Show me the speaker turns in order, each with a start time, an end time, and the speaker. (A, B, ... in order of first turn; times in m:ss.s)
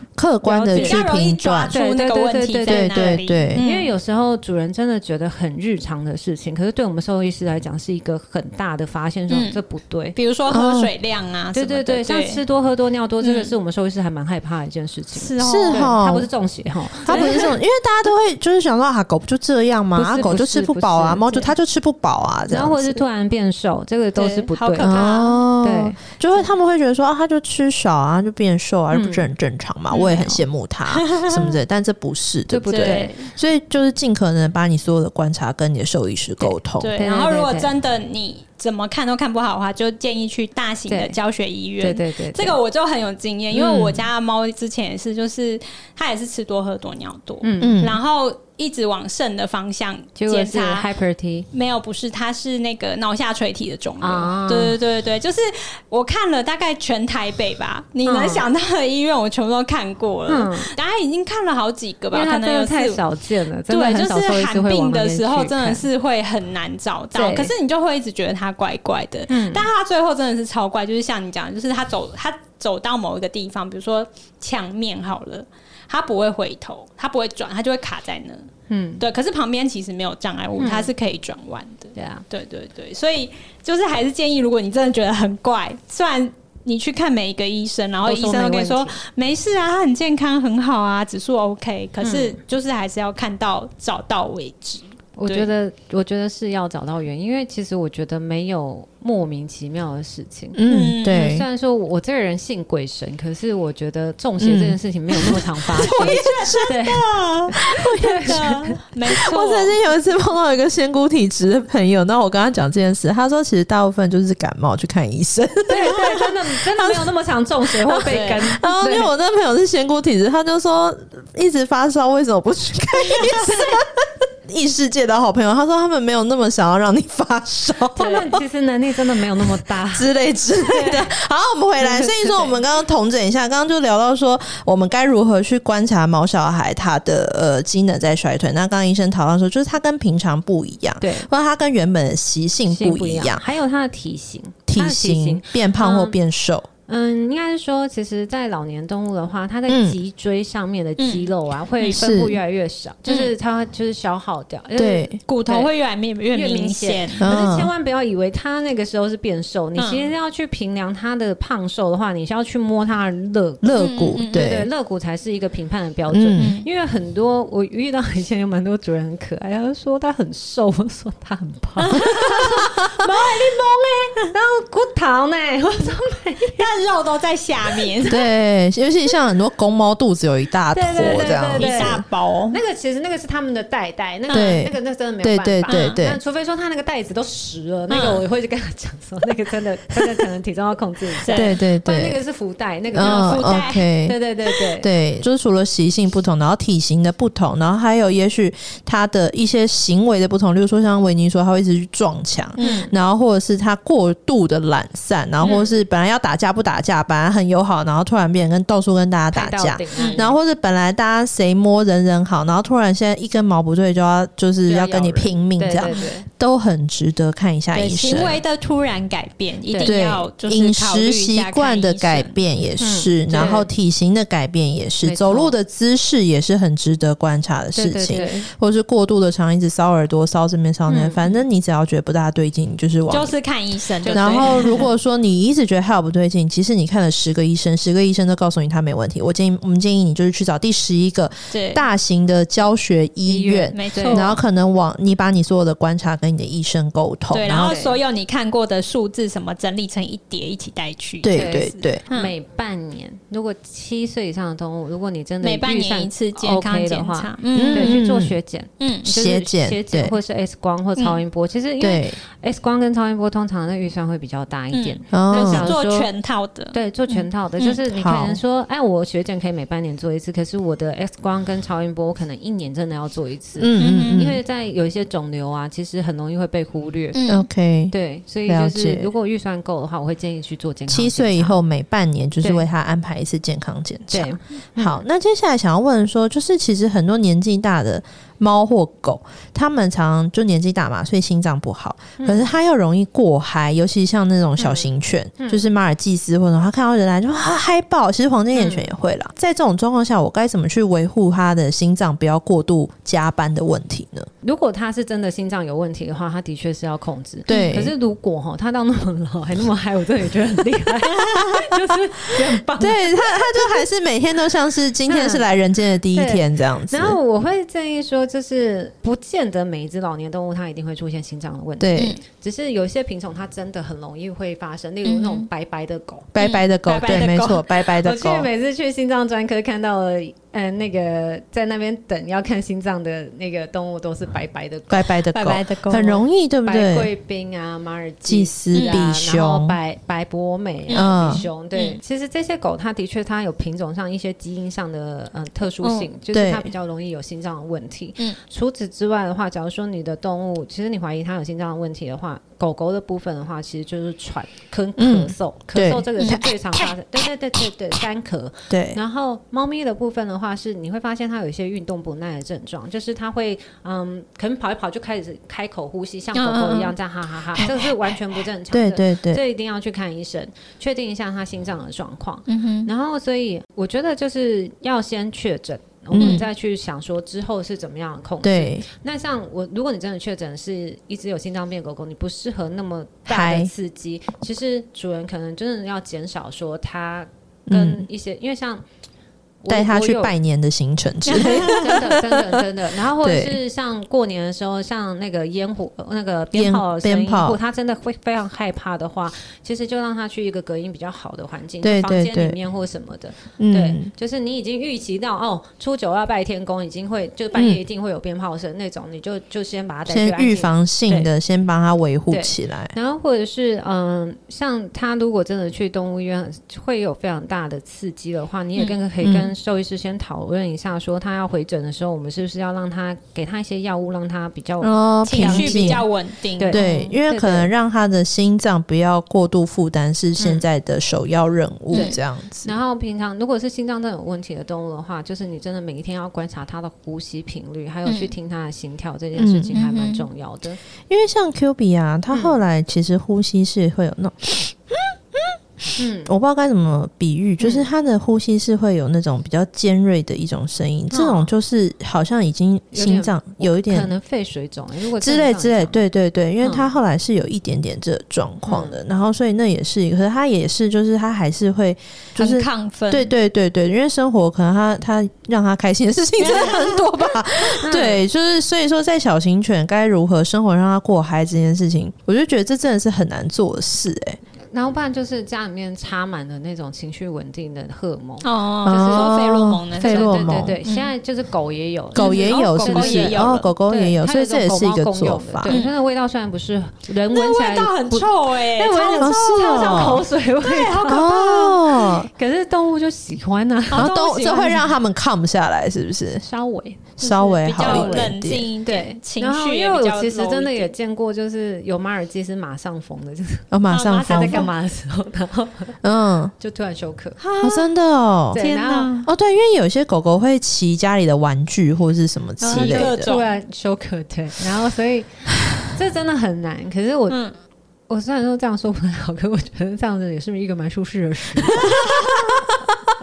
0:00.2-0:01.8 A
0:00.4-0:01.0 B
0:00.7-0:03.9 C
0:01.7-0:10.2 B
0:02.7-0:03.6 A
0:09.3-0:09.6 C
0:10.2-0:12.4 C
0:10.5-0:10.9 A
0:11.5-0:17.6 B
0:13.2-0:13.5 C
0:15.2-0:15.9 C
0:15.4-0:16.3 A
0:17.1-0:17.6 C
0:17.1-0:23.0 A
0:20.0-0:21.5 B
0:22.5-0:25.1 B
0:24.2-0:25.4 C
0:24.8-0:36.9 A
0:25.6-0:26.4 B
0:28.9-0:29.3 B
0:29.9-0:30.3 C
0:30.9-0:31.6 C
0:32.5-0:33.2 B
0:32.7-0:33.3 C
0:36.4-0:37.7 B
0:36.8-0:50.9 C
0:40.9-0:41.2 B
0:41.8-0:42.6 B
0:43.5-0:44.1 A
0:47.4-0:47.8 B
0:47.6-0:48.0 A
0:50.2-0:51.5 B
0:51.5-1:03.0 C
0:54.0-0:54.8 B
0:58.0-0:58.5 B
1:00.3-1:00.7 B
1:02.1-1:05.8 B
1:03.7-1:18.5 C
1:07.1-1:07.5 B
1:09.3-1:09.7 B
1:18.7-1:19.0 B
1:19.0-1:35.5 C
1:20.6-1:20.9 B
1:22.0-1:22.2 B
1:28.0-1:29.0 B
1:32.0-1:32.4 B
1:35.2-1:48.8 B
1:40.5-1:41.5 A
1:40.7-1:41.2 C
1:44.4-1:46.7 A
1:45.2-1:47.7 C
1:47.7-1:48.5 A
1:48.2-1:49.8 C
1:49.1-1:57.0 A
1:55.7-1:59.1 B
1:58.0-1:58.5 C
1:58.6-2:08.4 A
2:03.2-2:03.6 C
2:08.0-2:11.1 B
2:09.9-2:23.4 A
2:11.8-2:12.5 B
2:21.0-2:21.3 B
2:22.7-2:26.2 B
2:24.7-2:26.7 A
2:26.9-2:35.7 B
2:29.7-2:30.0 A
2:31.0-2:31.3 C
2:32.0-2:32.4 A
2:33.1-2:33.3 C
2:34.8-2:35.2 A
2:35.3-2:37.3 C
2:36.3-2:56.7 B
2:37.2-2:37.7 A
2:39.8-2:40.1 C
2:43.6-2:44.7 A
2:43.8-2:44.5 C
2:46.1-2:46.6 A
2:46.4-2:46.7 C
2:51.8-2:52.7 C
2:56.6-2:58.2 C
2:57.8-2:58.1 B
2:58.1-3:02.0 A
3:00.7-3:14.9 B
3:00.9-3:02.6 C
3:04.3-3:04.6 C
3:04.3-3:06.2 A
3:05.7-3:06.0 C
3:07.9-3:08.2 C
3:11.2-3:11.6 C
3:11.3-3:12.2 A
3:12.9-3:14.2 A
3:13.0-3:13.9 C
3:14.8-3:38.4 A
3:22.6-3:22.9 C
3:22.6-3:22.9 B
3:25.4-3:25.7 C
3:25.4-3:25.7 B
3:29.3-3:30.4 B
3:30.0-3:30.2 C
3:34.7-3:36.3 B
3:37.7-3:42.4 C
3:39.7-3:40.0 B
3:39.8-3:53.3 A
3:42.8-3:43.7 B
3:45.0-3:45.5 B
3:47.8-3:48.5 B
3:50.9-3:51.2 B
3:53.1-3:54.9 C
3:54.0-3:54.9 B
3:54.1-4:07.8 A
4:01.5-4:01.8 C
4:03.3-4:04.3 B
4:03.7-4:04.4 C
4:07.3-4:12.3 C
4:07.6-4:08.0 B
4:11.2-4:12.0 A
4:11.3-4:26.1 B
4:15.4-4:18.1 C
4:17.5-4:18.4 A
4:18.8-4:19.1 C
4:19.0-4:20.2 A
4:21.8-4:22.2 A
4:24.7-4:27.8 C
4:25.1-4:25.7 A
4:26.7-4:37.2 B
4:27.9-4:28.4 A
4:33.6-4:34.4 A
4:33.8-4:34.3 C
4:37.2-4:37.5 C
4:37.3-4:37.9 A
4:37.9-4:41.6 B
4:38.5-4:39.1 A
4:40.9-5:04.3 A
4:42.4-4:42.7 B
4:44.1-4:45.0 B
4:52.2-4:52.5 B
4:54.6-4:55.7 B
4:58.6-4:58.9 B
5:04.4-5:13.8 B
5:07.5-5:07.9 A
5:12.8-5:17.2 A
5:15.1-5:15.5 B
5:16.1-5:26.3 B
5:21.8-5:22.2 A
5:25.0-5:25.5 C
5:26.3-5:28.5 A
5:26.4-5:27.8 C
5:28.0-5:35.1 B
5:34.9-5:37.1 A
5:35.3-5:36.2 C
5:35.9-6:28.8 B
5:38.2-5:39.8 A
5:38.7-5:39.0 C
5:40.9-5:41.5 A
5:45.8-5:46.1 C
5:46.3-5:46.7 A
5:55.0-5:56.5 A
5:56.2-5:56.4 C
5:58.7-5:59.0 A
6:06.4-6:07.0 C
6:07.6-6:07.8 C
6:08.7-6:09.4 A
6:12.5-6:12.9 C
6:16.1-6:16.4 A
6:16.2-6:16.4 C
6:18.4-6:18.8 A
6:23.3-6:23.7 A
6:27.7-6:28.1 A
6:29.6-6:30.3 B
6:29.7-6:32.6 A
6:31.3-6:31.9 C
6:31.3-6:51.3 B
6:33.2-6:33.6 A
6:36.5-6:37.6 A
6:41.8-6:42.6 A
6:43.6-6:44.1 A
6:47.5-6:47.8 A
6:50.1-6:53.0 A
6:52.3-7:06.0 B
6:59.2-6:59.5 A
7:04.8-7:06.1 A
7:05.2-7:06.8 C
7:06.6-7:07.7 B
7:06.7-7:12.7 A
7:10.4-7:10.6 B
7:11.9-7:20.8 B
7:18.0-7:18.3 C
7:19.4-7:19.9 A
7:19.8-7:20.2 C
7:21.1-7:25.5 A
7:22.3-7:22.6 B
7:26.0-7:26.3 B
7:26.3-7:34.1 A
7:27.6-7:27.9 B
7:31.1-7:31.5 B
7:32.9-7:36.0 B
7:35.2-7:54.4 A
7:36.6-7:36.9 B
7:38.7-7:39.0 B
7:42.4-7:43.3 C
7:46.4-7:47.1 C
7:46.4-7:46.7 B
7:47.8-7:48.2 B
7:54.7-8:14.2 B
7:58.4-8:01.1 C
7:58.8-8:00.8 A
8:02.2-8:03.7 C
8:02.2-8:05.8 A
8:05.7-8:05.9 C
8:07.3-8:11.9 C
8:09.2-8:10.2 A
8:11.0-8:12.3 A
8:13.9-8:14.9 C
8:14.0-8:16.5 A
8:16.4-8:17.1 B
8:17.2-8:18.7 A
8:17.2-8:20.9 C
8:17.8-8:18.3 B
8:18.9-8:26.0 B
8:23.7-8:24.7 A
8:23.9-8:24.7 C
8:26.0-8:26.5 A
8:26.6-8:27.4 B
8:27.4-8:27.9 C
8:27.6-8:28.7 A
8:28.5-8:29.1 B
8:28.5-8:29.3 C
8:29.2-8:33.3 A
8:32.6-8:33.5 C
8:32.6-8:37.4 B
8:37.3-8:37.6 C
8:38.1-8:42.1 B
8:41.8-8:42.8 A